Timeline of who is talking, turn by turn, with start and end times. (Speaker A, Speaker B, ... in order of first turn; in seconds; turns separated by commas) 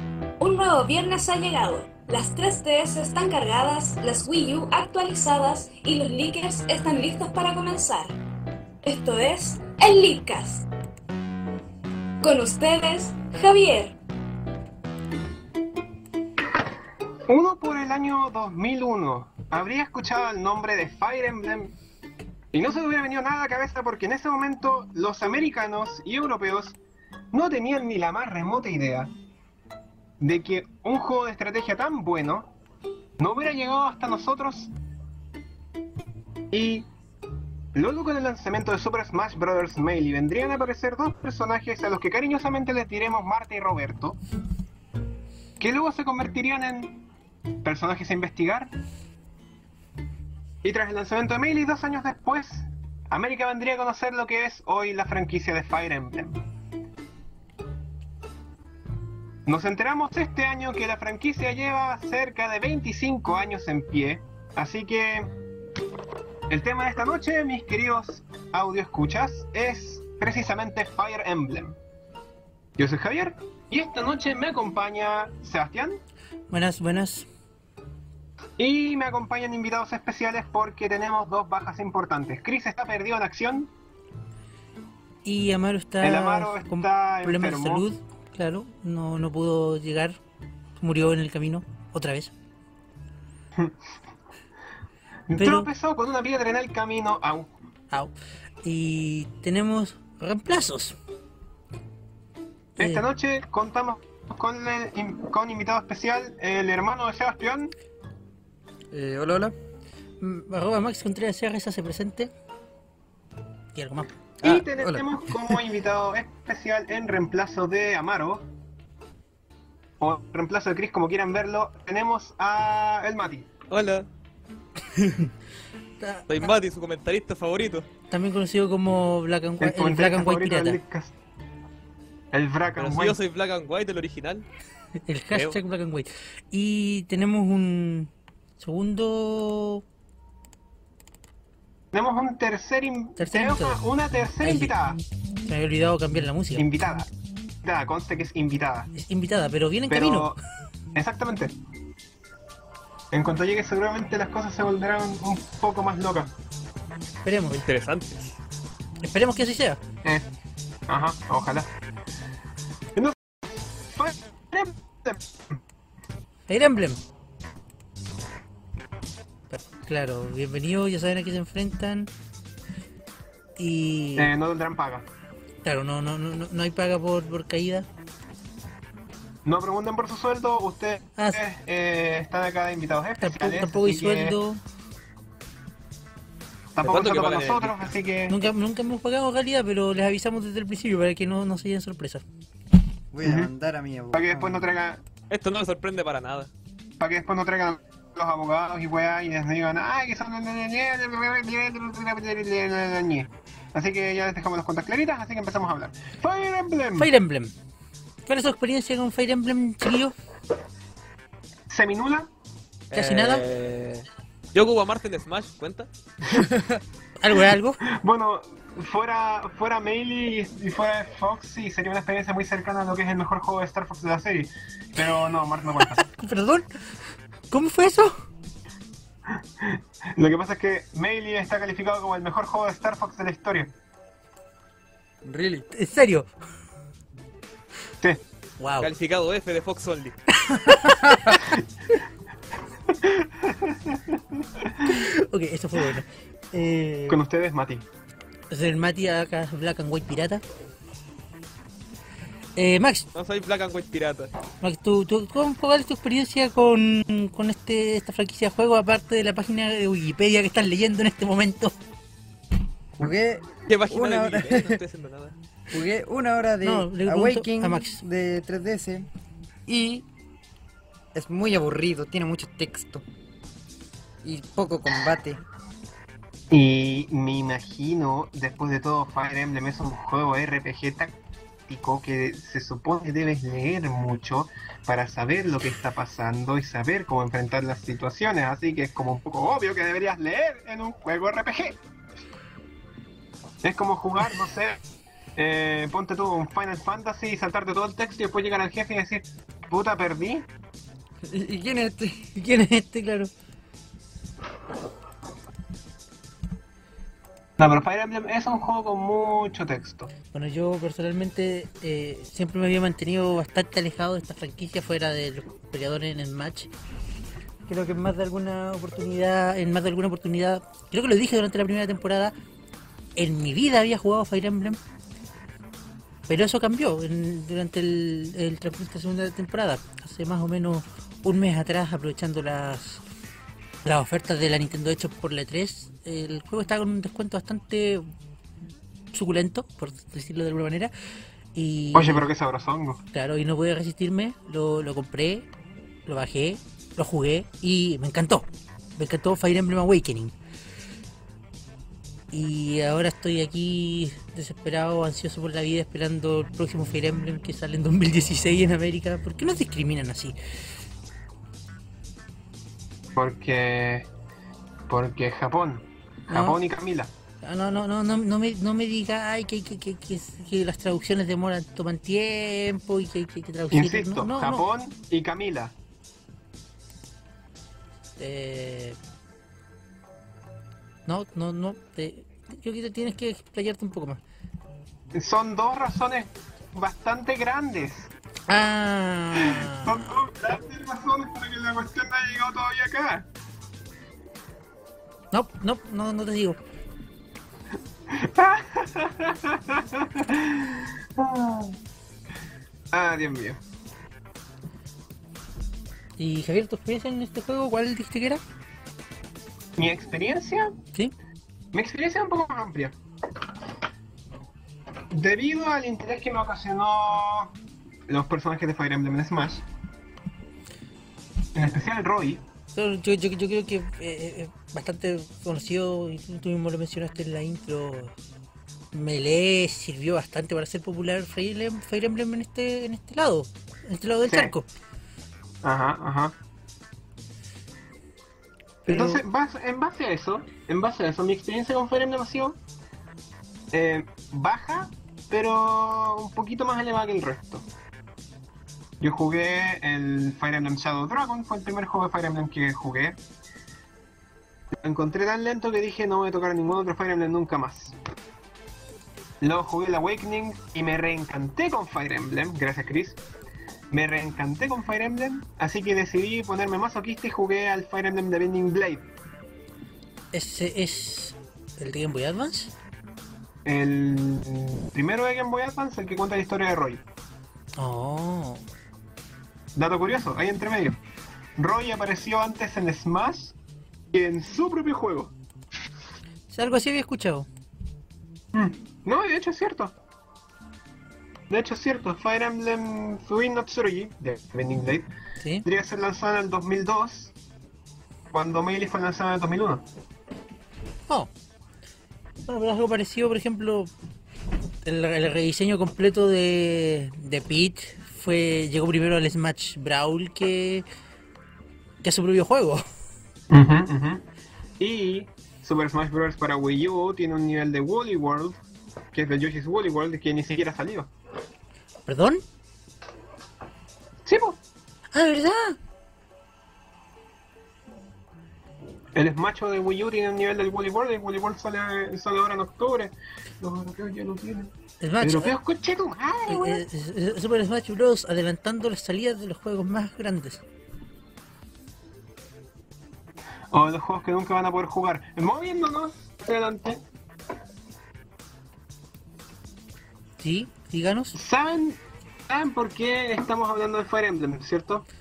Speaker A: 0.4-8.2, Speaker A: 8.8-10.7, Speaker A: 12.2-14.0, Speaker B: 17.3-21.8, Speaker B: 22.5-26.8, Speaker B: 27.3-29.1, Speaker B: 30.2-32.5, Speaker B: 33.2-34.7, Speaker B: 36.5-36.9, Speaker B: 37.7-44.2, Speaker B: 45.6-47.0, Speaker B: 47.6-48.7, Speaker B: 50.6-56.4, Speaker B: 59.5-65.3, Speaker B: 66.5-71.8, Speaker B: 72.8-76.0, Speaker C: 76.5-77.3, Speaker B: 78.6-83.7, Speaker C: 85.2-90.2, Speaker B: 86.0-87.9, Speaker C: 90.8-92.3, Speaker B: 95.3-97.5, Speaker C: 95.4-95.7, Speaker C: 98.6-101.0, Speaker C: 102.8-103.0, Speaker B: 102.8-107.8, Speaker D: 108.9-109.5, Speaker C: 110.2-112.3, Speaker C: 113.7-114.1, Speaker D: 114.4-115.6, Speaker B: 114.4-118.5, Speaker B: 120.0-123.5, Speaker E: 123.7-124.1, Speaker C: 126.0-126.5, Speaker E: 126.3-127.9, Speaker C: 128.1-130.8, Speaker B: 129.6-131.2, Speaker B: 132.3-133.2, Speaker E: 132.8-134.5, Speaker C: 135.1-139.8, Speaker E: 135.3-135.6, Speaker B: 141.9-145.0, Speaker C: 143.2-143.8, Speaker C: 144.4-144.7, Speaker C: 145.5-146.7, Speaker B: 146.6-147.1, Speaker B: 147.6-148.9, Speaker C: 148.9-150.3, Speaker B: 149.9-150.4, Speaker B: 150.9-151.6, Speaker B: 153.1-156.3, Speaker C: 157.2-157.7, Speaker E: 157.6-158.4, Speaker C: 159.0-159.8, Speaker B: 160.0-160.3, Speaker B: 160.9-161.7, Speaker B: 163.9-165.2, Speaker C: 166.5-167.0, Speaker C: 169.5-172.1, Speaker C: 173.6-174.3, Speaker B: 174.2-175.1, Speaker C: 175.6-177.9, Speaker B: 179.4-184.4, Speaker C: 183.2-184.6, Speaker B: 186.7-188.4, Speaker E: 186.8-187.9, Speaker C: 188.3-192.2, Speaker D: 193.1-194.7, Speaker B: 193.2-193.5, Speaker B: 194.1-195.0, Speaker E: 195.3-196.5, Speaker B: 197.0-207.1, Speaker C: 207.0-207.5, Speaker C: 208.3-210.1, Speaker B: 211.7-212.3, Speaker E: 212.9-215.9, Speaker C: 212.9-213.4, Speaker D: 216.3-216.8, Speaker C: 217.2-217.8, Speaker B: 217.9-226.1, Speaker C: 226.0-226.7, Speaker C: 227.5-228.2, Speaker B: 229.6-233.7, Speaker D: 235.2-235.7, Speaker C: 235.7-236.3, Speaker C: 238.6-238.9, Speaker E: 238.8-240.2, Speaker C: 240.4-241.6, Speaker B: 242.9-244.2, Speaker C: 244.8-247.2, Speaker B: 247.1-247.9, Speaker C: 248.5-250.4, Speaker C: 252.6-253.1, Speaker E: 253.1-254.3, Speaker C: 254.6-261.8, Speaker D: 263.0-264.8, Speaker E: 263.7-265.4, Speaker D: 265.7-269.1, Speaker C: 266.6-268.0, Speaker D: 269.7-270.1, Speaker D: 271.1-273.1, Speaker D: 274.2-275.4, Speaker B: 276.5-291.8, Speaker B: 293.6-294.8, Speaker B: 295.4-300.5, Speaker D: 301.3-302.3, Speaker C: 302.4-303.3, Speaker B: 307.6-310.1, Speaker C: 310.3-316.7, Speaker C: 317.7-322.4, Speaker C: 323.2-324.8, Speaker C: 326.3-333.0, Speaker C: 333.9-338.1, Speaker C: 339.1-340.9, Speaker C: 341.6-342.3, Speaker B: 341.9-343.0, Speaker C: 343.1-345.5, Speaker C: 346.1-350.3, Speaker C: 352.3-360.4, Speaker B: 363.2-364.1, Speaker B: 364.9-367.1, Speaker C: 366.3-366.6, Speaker C: 367.4-374.7, Speaker B: 373.7-375.8, Speaker C: 378.2-379.0, Speaker C: 381.1-384.2, Speaker B: 385.1-388.1, Speaker C: 388.5-390.2, Speaker B: 389.4-393.3, Speaker C: 395.3-396.6, Speaker B: 398.1-401.8, Speaker B: 402.9-403.6, Speaker C: 406.2-408.4, Speaker B: 409.8-410.7, Speaker B: 411.7-413.0, Speaker B: 415.1-417.6, Speaker B: 418.1-419.6, Speaker B: 421.5-422.4, Speaker C: 422.8-428.1, Speaker C: 428.9-434.7, Speaker B: 435.6-436.4, Speaker C: 438.9-439.2, Speaker B: 438.9-442.6, Speaker B: 443.7-447.7, Speaker B: 449.0-453.2, Speaker B: 454.8-457.9, Speaker B: 459.4-463.2, Speaker B: 463.9-469.1, Speaker C: 470.3-472.7, Speaker B: 473.6-477.0, Speaker C: 477.8-478.6, Speaker B: 479.8-481.0, Speaker B: 481.6-483.6, Speaker B: 484.1-485.3, Speaker C: 486.5-487.5, Speaker B: 488.5-489.9, Speaker B: 491.5-495.1, Speaker B: 495.6-497.3, Speaker B: 498.3-499.9, Speaker C: 502.5-503.9, Speaker C: 504.9-510.9, Speaker C: 512.0-512.9, Speaker B: 513.5-514.2, Speaker B: 514.8-518.6, Speaker B: 519.1-521.1, Speaker C: 522.1-522.4, Speaker B: 524.3-524.6, Speaker C: 525.1-525.8, Speaker B: 529.1-536.8, Speaker C: 535.0-535.5, Speaker C: 536.5-540.6, Speaker B: 543.7-547.0, Speaker C: 550.4-551.4, Speaker B: 551.4-555.1